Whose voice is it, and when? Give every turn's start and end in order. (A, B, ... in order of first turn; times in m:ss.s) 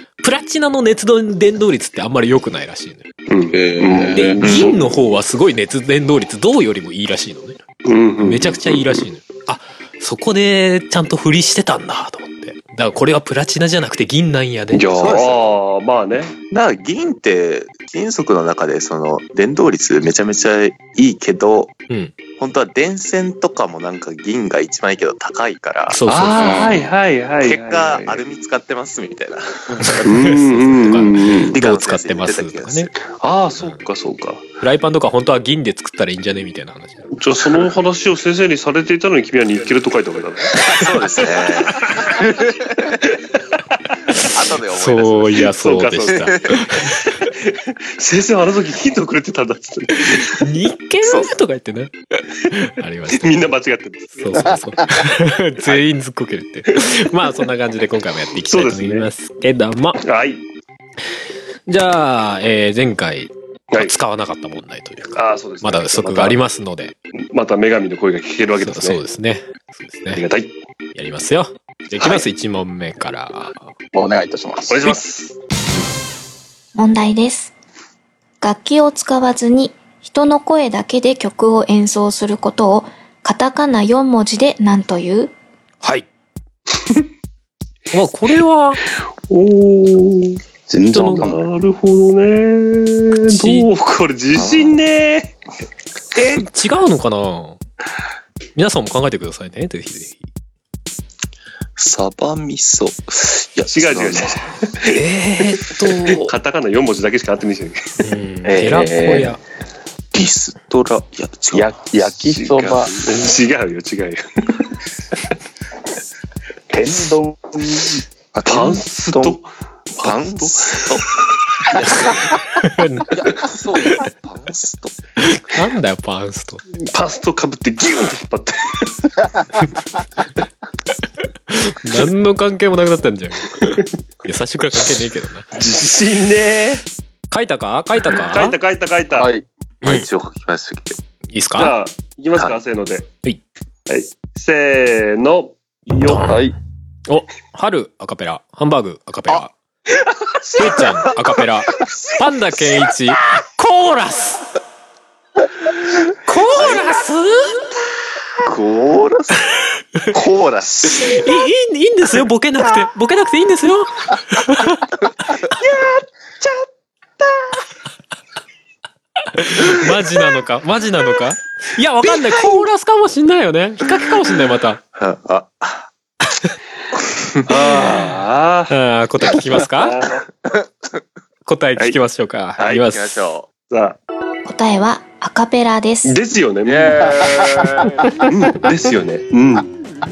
0:00.2-0:03.1 A
0:03.3-0:05.0 B
0:03.5-0:04.4 C
0:04.1-0:07.6 A
0:04.5-0:04.7 D
0:07.9-0:09.0 B
0:08.2-0:15.2 A
0:14.7-0:16.4 B
0:15.0-0:15.4 D
0:16.5-0:21.8 D
0:22.4-0:26.0 D
0:25.9-0:26.8 A
0:26.1-0:28.2 B
0:26.4-0:26.8 C
0:27.4-0:30.4 D
0:29.8-0:32.9 A
0:30.0-0:31.6 B
0:31.5-0:32.9 D
0:33.1-0:34.5 B
0:34.6-0:37.1 A
0:37.1-0:42.2 B
0:40.6-0:40.8 A
0:40.6-0:43.0 D
0:44.1-0:47.2 A
0:44.1-0:46.7 D
0:45.5-0:50.5 B
0:50.0-0:53.5 A
0:51.0-0:51.3 D
0:53.1-0:54.5 B
0:54.2-1:00.0 A
0:58.4-0:59.1 B
1:00.0-1:00.4 B
1:01.7-1:07.0 A
1:05.2-1:06.4 B
1:07.3-1:09.0 B
1:08.6-1:10.2 A
1:10.1-1:10.5 B
1:11.0-1:13.6 A
1:13.9-1:15.0 C
1:14.7-1:15.4 B
1:16.8-1:17.5 E
1:18.4-1:25.3 E
1:27.9-1:28.8 A
1:29.3-1:30.4 B
1:30.7-1:31.4 C
1:30.9-1:31.3 A
1:30.9-1:35.4 B
1:33.3-1:33.7 A
1:34.4-1:34.8 D
1:36.2-1:37.6 A
1:38.6-1:40.2 A
1:41.8-1:44.5 D
1:43.7-1:48.0 B
1:44.9-1:46.3 A
1:48.0-1:49.4 A
1:48.4-1:49.4 C
1:50.1-1:51.7 D
1:51.5-1:52.9 C
1:52.3-1:54.8 B
1:56.7-1:58.0 C
1:58.3-1:59.4 D
1:58.4-1:59.5 B
2:00.0-2:01.1 D
2:00.0-2:01.1 B
2:01.8-2:02.4 D
2:01.8-2:03.2 A
2:03.1-2:05.0 D
2:05.2-2:06.6 A
2:06.7-2:09.2 B
2:11.5-2:15.5 A
2:15.6-2:16.8 B
2:17.3-2:18.6 A
2:18.1-2:19.3 B
2:19.1-2:19.4 C
2:19.8-2:20.1 A
2:19.8-2:21.0 D
2:21.3-2:21.8 A
2:21.6-2:23.1 B
2:23.9-2:26.4 B
2:26.1-2:26.4 A
2:26.2-2:26.5 C
2:27.1-2:29.5 A
2:30.5-2:30.9 B
2:30.6-2:34.5 A
2:30.6-2:32.9 D
2:36.1-2:37.7 A
2:36.5-2:37.0 D
2:38.4-2:39.6 D
2:40.1-2:41.4 D
2:40.9-2:44.9 A
2:49.2-2:54.8 A
2:55.0-2:55.9 D
2:56.3-2:56.5 A
2:57.1-2:57.9 D
2:57.4-2:58.7 B
2:58.7-3:00.0 A
2:59.6-3:00.2 B
3:01.5-3:03.2 A
3:02.6-3:03.5 D
3:03.7-3:04.0 B
3:04.4-3:06.2 E
3:06.0-3:09.7 B
3:06.7-3:08.0 D
3:07.3-3:07.9 C